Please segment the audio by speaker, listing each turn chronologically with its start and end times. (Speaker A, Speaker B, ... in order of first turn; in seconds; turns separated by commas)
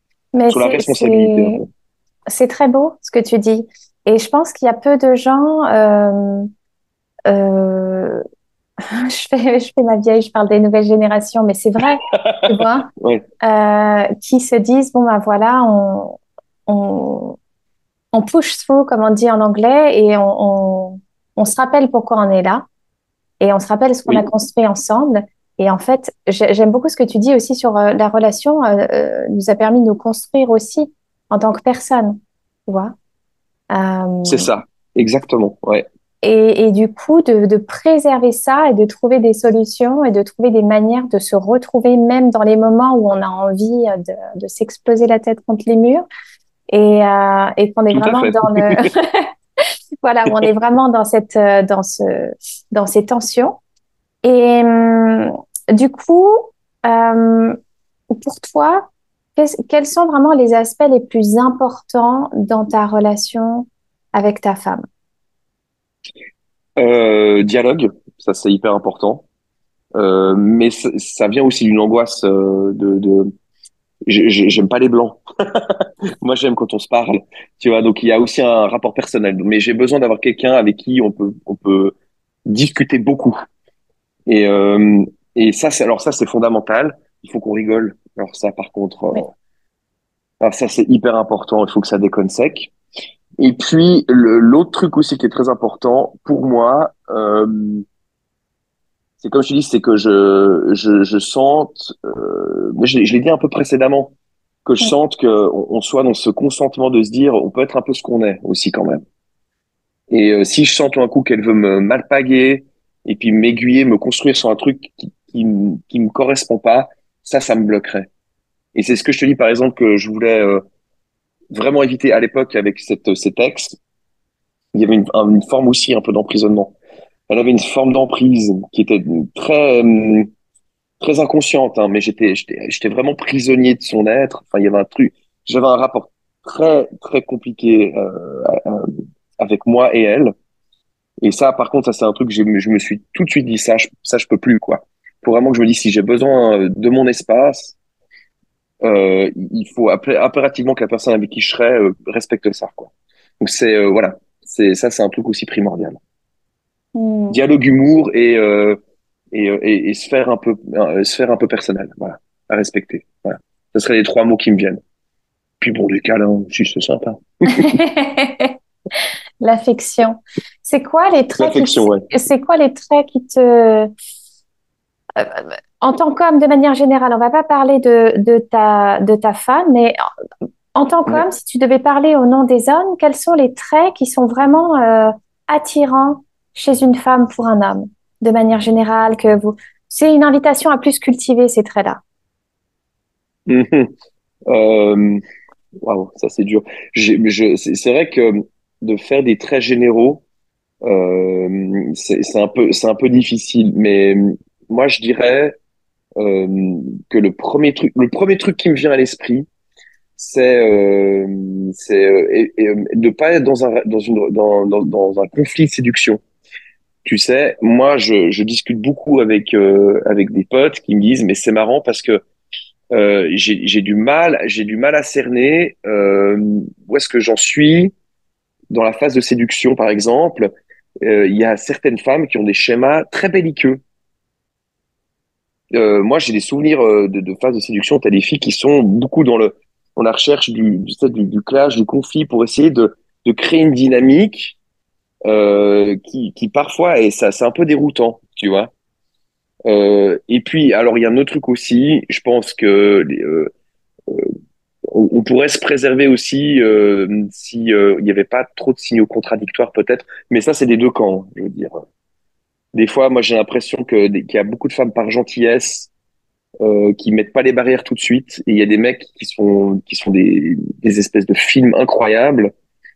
Speaker A: 0.3-1.6, Speaker B: 0.5-1.7, Speaker A: 2.3-6.5, Speaker A: 7.3-8.2, Speaker A: 8.8-12.9, Speaker B: 12.2-13.2, Speaker A: 13.4-17.4, Speaker A: 18.1-22.6, Speaker A: 23.4-32.9, Speaker A: 33.7-34.5, Speaker B: 34.2-35.8, Speaker A: 36.2-46.0, Speaker A: 46.7-49.3, Speaker B: 47.9-48.8, Speaker A: 50.0-53.6, Speaker A: 54.2-57.6, Speaker A: 58.1-64.8, Speaker B: 66.8-69.2, Speaker B: 69.9-73.3, Speaker B: 74.1-83.3, Speaker B: 84.3-89.3, Speaker B: 90.4-92.7, Speaker B: 93.4-97.8, Speaker B: 99.2-104.1, Speaker B: 104.6-109.0, Speaker B: 110.1-118.1, Speaker B: 118.7-120.6, Speaker B: 121.5-123.8, Speaker B: 124.7-126.7, Speaker B: 127.3-130.3, Speaker B: 131.0-140.3, Speaker B: 141.2-147.8, Speaker B: 148.8-156.0, Speaker A: 156.9-157.4, Speaker B: 157.3-158.8, Speaker B: 159.3-164.8, Speaker B: 165.6-167.8, Speaker A: 167.5-168.5, Speaker A: 169.4-173.9, Speaker B: 171.4-172.0, Speaker A: 175.2-180.0, Speaker A: 180.7-192.0, Speaker B: 193.5-193.9, Speaker B: 194.5-195.2, Speaker B: 195.8-200.2, Speaker B: 200.8-205.5, Speaker B: 206.2-209.5, Speaker B: 210.2-216.2, Speaker B: 217.0-222.2, Speaker B: 222.9-227.9, Speaker B: 228.7-233.8, Speaker B: 235.7-244.6, Speaker B: 245.3-248.7, Speaker B: 249.7-253.5, Speaker B: 254.9-261.8, Speaker B: 262.7-265.9, Speaker B: 266.6-272.5